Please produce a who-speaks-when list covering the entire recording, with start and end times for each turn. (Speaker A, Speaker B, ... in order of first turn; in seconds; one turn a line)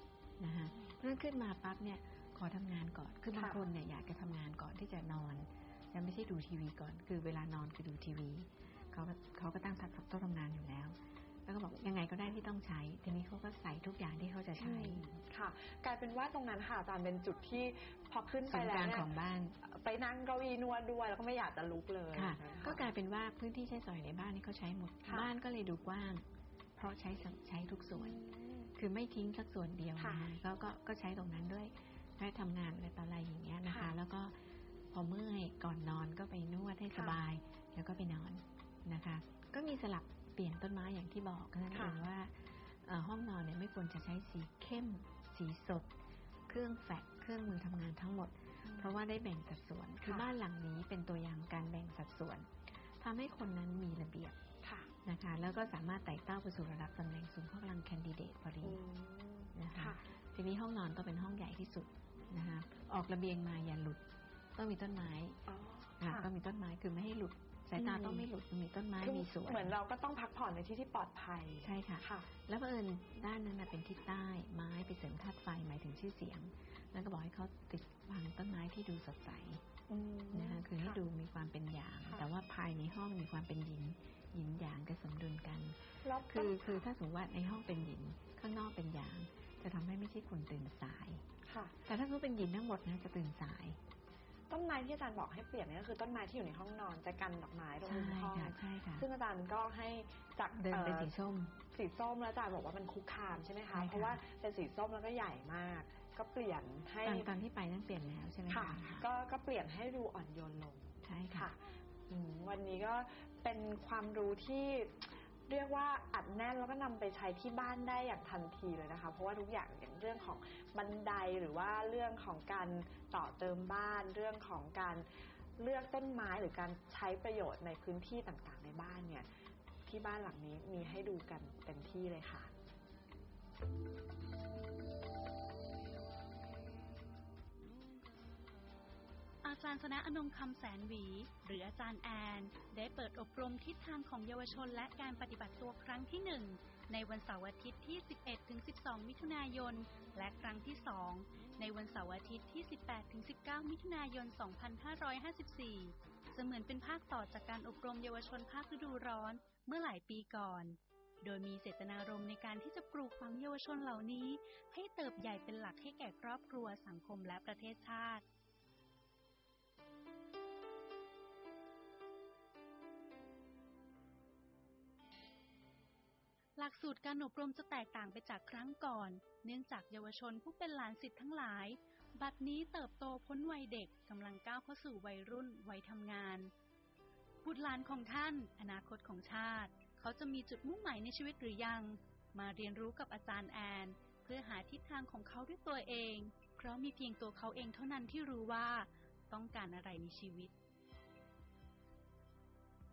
Speaker A: 0.4-15.0
Speaker B: 3.3-3.6
Speaker B: 14.6-22.9
Speaker A: 18.5-19.6
Speaker A: 22.1-26.2
Speaker B: 25.0-25.3
Speaker A: 26.8-28.2
Speaker B: 27.9-28.7
Speaker A: 28.8-34.3
Speaker B: 30.0-30.3
Speaker B: 33.6-34.0
Speaker A: 34.9-45.9
Speaker B: 36.9-37.2
Speaker B: 41.7-42.0
Speaker A: 46.5-52.5
Speaker B: 48.6-48.9
Speaker B: 50.0-50.3
Speaker A: 53.0-54.4
Speaker B: 54.6-54.9
Speaker A: 55.0-58.8
Speaker B: 58.6-60.0
Speaker A: 59.5-64.0
Speaker A: 64.5-65.4
Speaker B: 65.5-66.3
Speaker A: 66.0-69.7
Speaker B: 67.8-68.3
Speaker B: 69.0-72.3
Speaker A: 71.6-79.6
Speaker B: 79.9-81.0
Speaker A: 80.3-91.2
Speaker B: 86.0-86.8
Speaker B: 91.5-91.8
Speaker A: 91.9-93.8
Speaker B: 94.5-101.1
Speaker A: 97.8-99.1
Speaker A: 100.6-101.6
Speaker B: 101.7-107.3
Speaker A: 103.7-104.2
Speaker A: 107.0-109.0
Speaker B: 108.5-125.0
Speaker A: 111.0-111.5
Speaker B: 125.6-129.3
Speaker B: 129.8-132.5
Speaker C: 139.4-168.2
Speaker C: 176.6-186.5
Speaker C: 187.4-200.5